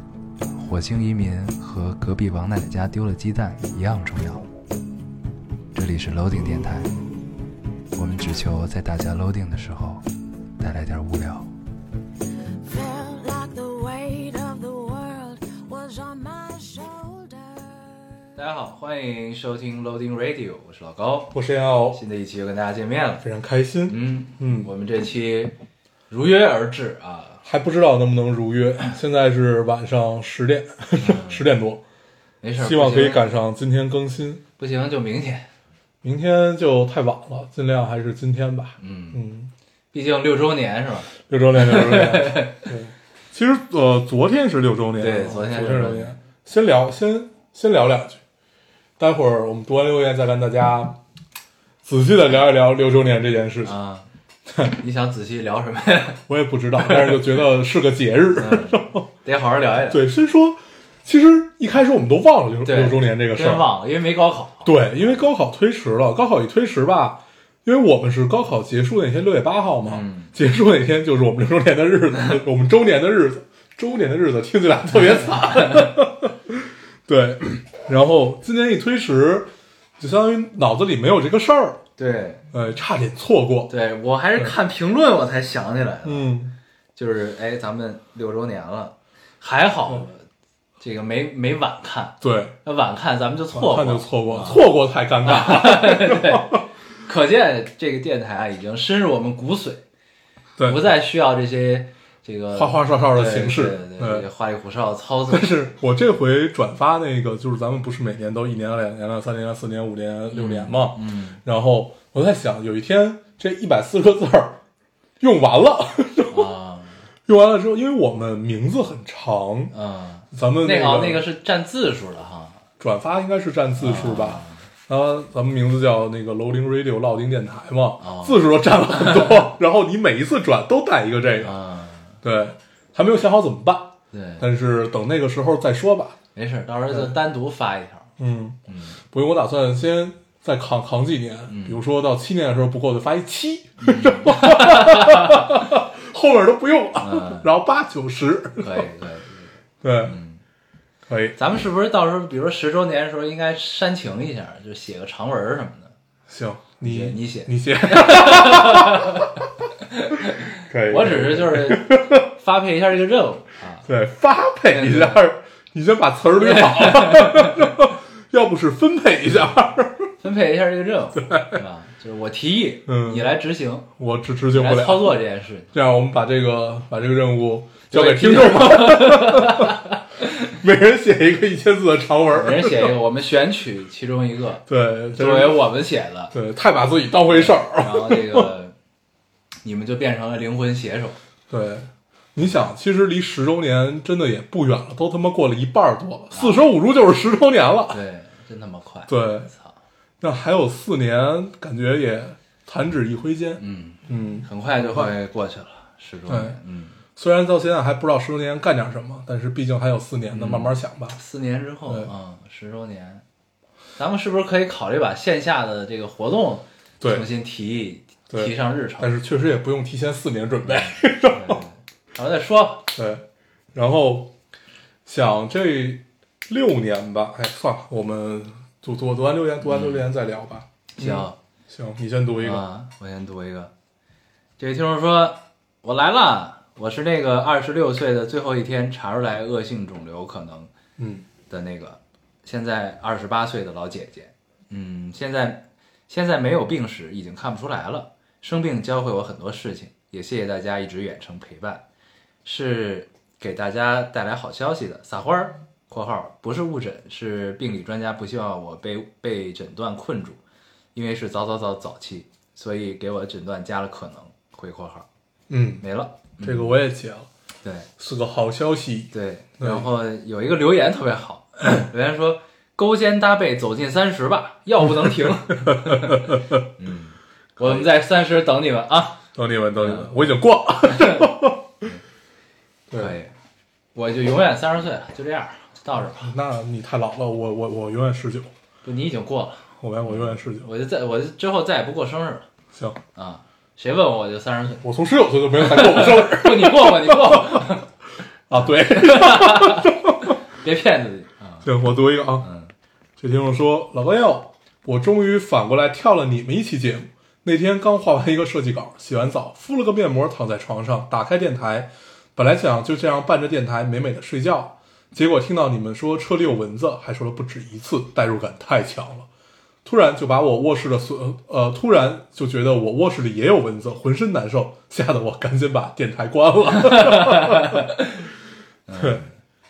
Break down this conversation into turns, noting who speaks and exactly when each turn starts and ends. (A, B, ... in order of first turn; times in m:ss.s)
0:00.5-0:04.5 A
0:05.7-0:07.0 A
0:07.9-0:10.0 A
0:10.6-0:11.5 A
0:12.6-0:18.3 B
0:18.4-0:21.3 A
0:21.3-0:22.0 C
0:21.9-0:23.2 A
0:23.2-0:24.7 C
0:23.8-0:25.5 A
0:26.1-0:27.4 A
0:27.4-0:31.8 C
0:31.0-0:31.5 A
0:32.4-0:33.2 A
0:32.6-0:34.4 C
0:34.6-0:35.5 A
0:36.0-0:39.5 C
0:38.8-0:39.2 A
0:39.9-0:42.7 A
0:41.2-0:48.2 C
0:45.0-0:46.2 A
0:49.0-0:51.0 C
0:51.8-0:53.7 C
0:53.6-0:54.1 A
0:54.8-0:56.2 A
0:56.3-0:59.1 C
0:56.8-0:57.2 A
0:58.4-1:00.0 A
0:59.9-1:03.7 C
1:02.6-1:04.8 A
1:04.6-1:21.8 C
1:09.8-1:10.3 A
1:15.1-1:15.9 A
1:22.0-1:22.4 A
1:22.5-1:23.7 C
1:23.7-1:26.4 A
1:26.0-1:26.5 C
1:27.0-1:30.2 A
1:30.8-1:34.6 A
1:32.2-1:32.5 C
1:33.5-1:36.6 C
1:35.2-1:39.8 A
1:40.6-1:40.8 C
1:40.6-1:45.6 A
1:42.5-1:44.2 C
1:45.3-1:54.6 C
1:50.3-1:51.4 A
1:55.2-1:56.5 C
1:56.3-1:57.0 A
1:57.3-1:59.7 C
1:59.7-2:02.6 A
2:00.3-2:01.2 C
2:02.8-2:11.6 C
2:03.8-2:04.6 A
2:08.0-2:09.3 A
2:11.4-2:12.2 A
2:12.2-2:16.2 C
2:14.1-2:14.4 A
2:16.3-2:18.1 A
2:16.9-2:17.2 C
2:18.2-2:28.9 C
2:18.7-2:19.0 A
2:21.5-2:21.8 A
2:23.8-2:25.5 A
2:27.0-2:27.5 A
2:28.6-2:29.5 A
2:29.8-2:30.2 C
2:30.0-2:30.4 A
2:31.1-2:31.4 C
2:31.4-2:35.9 A
2:36.3-2:39.3 C
2:36.8-2:43.9 A
2:40.6-2:42.3 C
2:43.8-2:50.1 C
2:44.7-2:45.2 A
2:46.4-2:47.6 A
2:50.2-2:53.9 A
2:51.2-2:51.6 C
2:52.8-2:53.3 C
2:54.0-2:55.2 C
2:54.5-2:55.7 A
2:55.7-2:59.8 C
2:57.9-3:00.0 A
3:00.4-3:02.9 C
3:02.3-3:06.3 A
3:04.7-3:05.6 C
3:06.3-3:08.5 C
3:07.3-3:08.7 A
3:09.6-3:11.2 A
3:11.5-3:18.0 C
3:16.3-3:16.7 A
3:17.9-3:19.8 A
3:19.1-3:19.5 C
3:20.2-3:25.1 C
3:23.6-3:27.0 A
3:26.3-3:26.6 C
3:27.2-3:31.2 C
3:30.3-3:33.2 A
3:34.0-3:39.1 A
3:37.0-3:37.2 C
3:38.3-3:41.6 C
3:40.7-3:42.9 A
3:42.9-3:44.3 C
3:45.0-3:52.6 C
3:49.6-3:50.1 A
3:51.0-3:51.4 A
3:52.4-3:53.7 A
3:54.6-4:00.7 A
4:01.0-4:01.2 C
4:01.5-4:11.8 A
4:12.4-4:20.4 A
4:20.9-4:25.0 A
4:25.5-4:25.8 C
4:25.8-4:26.8 A
4:26.4-4:27.3 C
4:27.6-4:27.9 A
4:28.0-4:29.9 C
4:29.1-4:39.2 A
4:35.7-4:36.4 C
4:37.6-4:37.8 C
4:39.3-4:41.8 C
4:39.8-4:41.3 A
4:42.9-4:43.1 C
4:42.9-4:43.3 A
4:43.9-4:46.3 A
4:46.0-4:48.5 C
4:48.8-4:52.4 A
4:49.8-4:50.7 C
4:52.7-4:53.0 C
4:53.1-4:54.8 A
4:54.8-4:57.7 C
4:55.5-4:57.9 A
4:58.5-5:00.4 C
4:58.6-5:01.7 A
5:01.6-5:02.5 C
5:02.4-5:02.7 A
5:03.2-5:19.3 C
5:19.8-5:27.9 C
5:26.8-5:28.2 A
5:28.9-5:29.3 A
5:28.9-5:29.2 C